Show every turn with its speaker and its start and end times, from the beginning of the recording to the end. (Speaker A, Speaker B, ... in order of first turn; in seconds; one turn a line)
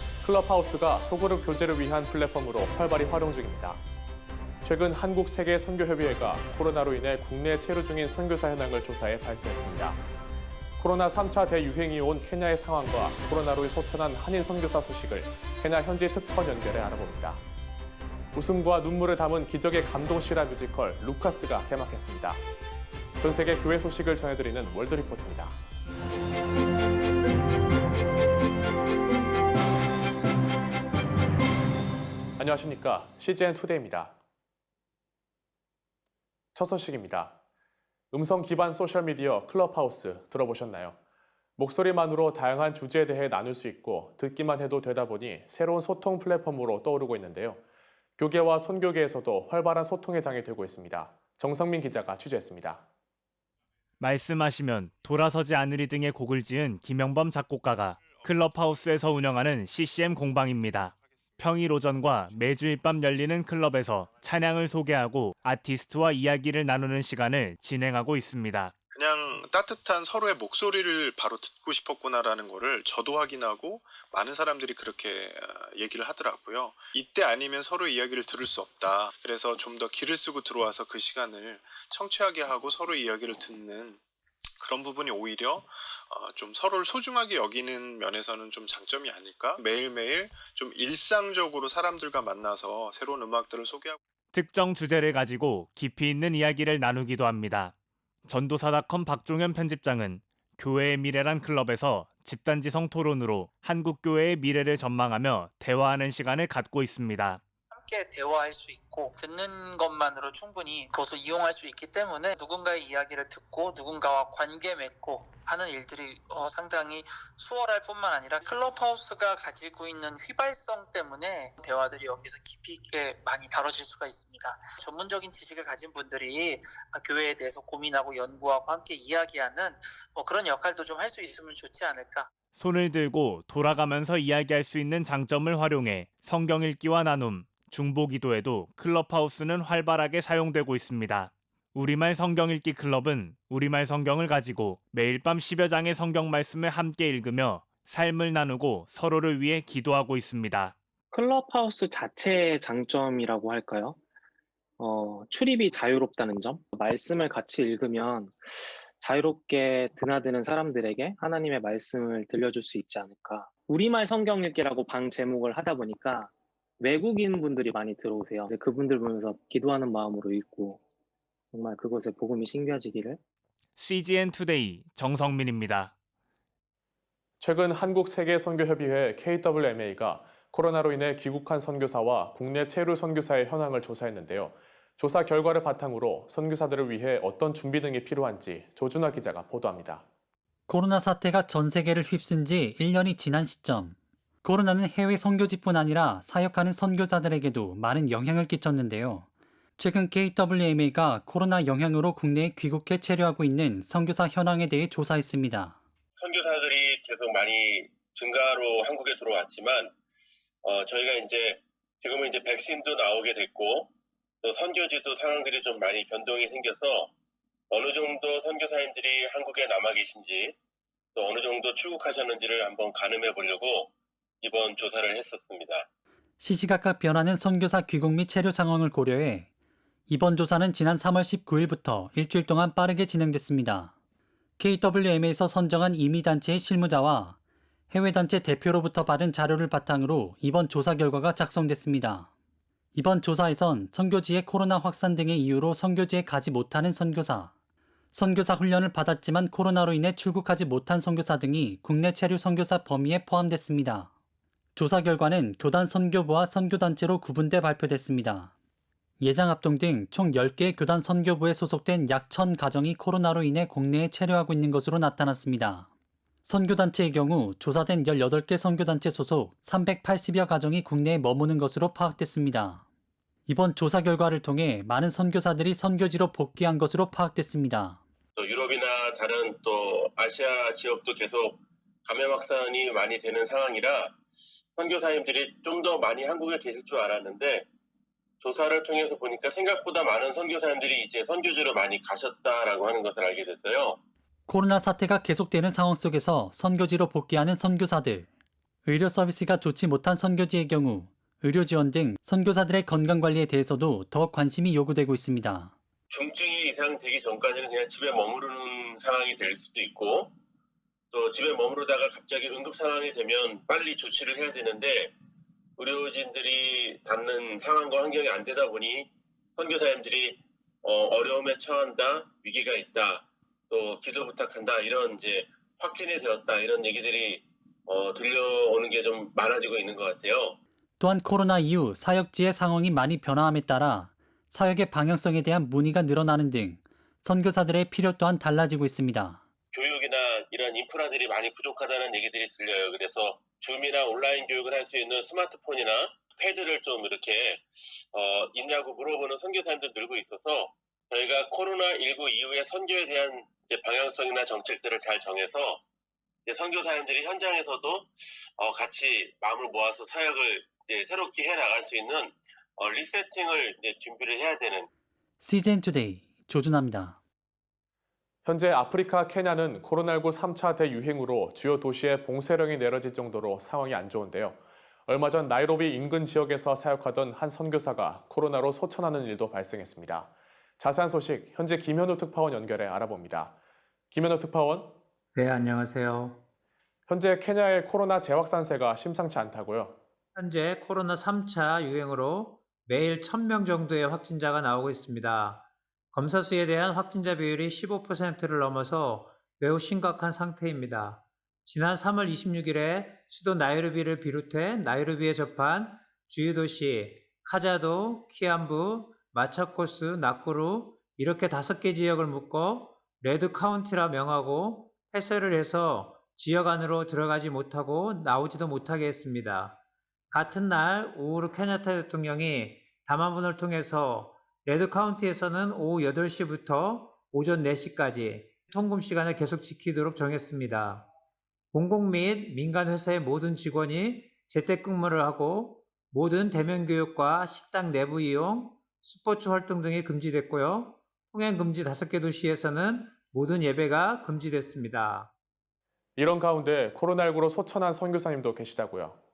Speaker A: 0.2-3.8
Speaker A: 4.6-10.0
Speaker A: 10.8-17.4
Speaker A: 18.3-22.4
Speaker A: 23.2-25.6
Speaker A: 32.4-34.2
Speaker A: 36.5-37.4
Speaker A: 38.1-41.0
Speaker A: 41.6-47.6
Speaker A: 48.2-52.9
Speaker B: 54.0-68.7
Speaker C: 68.9-84.0
Speaker C: 84.6-94.0
Speaker B: 94.3-97.7
Speaker B: 98.3-107.4
Speaker D: 107.7-132.3
Speaker B: 132.5-150.7
Speaker E: 151.1-154.0
Speaker E: 154.8-170.8
Speaker E: 171.5-173.2
Speaker B: 173.8-175.9
Speaker A: 177.4-190.1
Speaker F: 190.7-199.2
Speaker F: 199.8-205.8
Speaker G: 206.2-209.9
Speaker G: 210.6-213.9
Speaker G: 214.4-217.1
Speaker G: 217.7-220.5
Speaker G: 221.2-223.9
Speaker G: 224.4-225.8
Speaker F: 226.4-229.5
Speaker F: 230.1-233.9
Speaker F: 234.6-237.4
Speaker F: 237.9-242.3
Speaker F: 242.9-247.5
Speaker F: 248.1-254.1
Speaker F: 254.8-258.5
Speaker F: 259.2-265.9
Speaker F: 266.4-272.8
Speaker F: 273.5-278.0
Speaker G: 278.4-281.6
Speaker G: 282.1-284.1
Speaker G: 284.8-287.6
Speaker G: 288.4-294.0
Speaker F: 294.5-298.3
Speaker F: 298.9-305.7
Speaker G: 306.1-310.3
Speaker G: 311.1-315.1
Speaker G: 315.8-330.6
Speaker F: 331.0-339.4
Speaker G: 339.7-347.6
Speaker G: 348.1-355.8
Speaker G: 356.5-358.1
Speaker G: 358.6-364.9
Speaker F: 365.4-367.2
Speaker A: 368.4-383.6
Speaker A: 384.1-385.0
Speaker H: 385.4-386.4
Speaker A: 387.1-390.0
Speaker H: 390.4-419.8
Speaker H: 420.3-431.1
Speaker H: 431.7-445.3
Speaker A: 446.2-449.2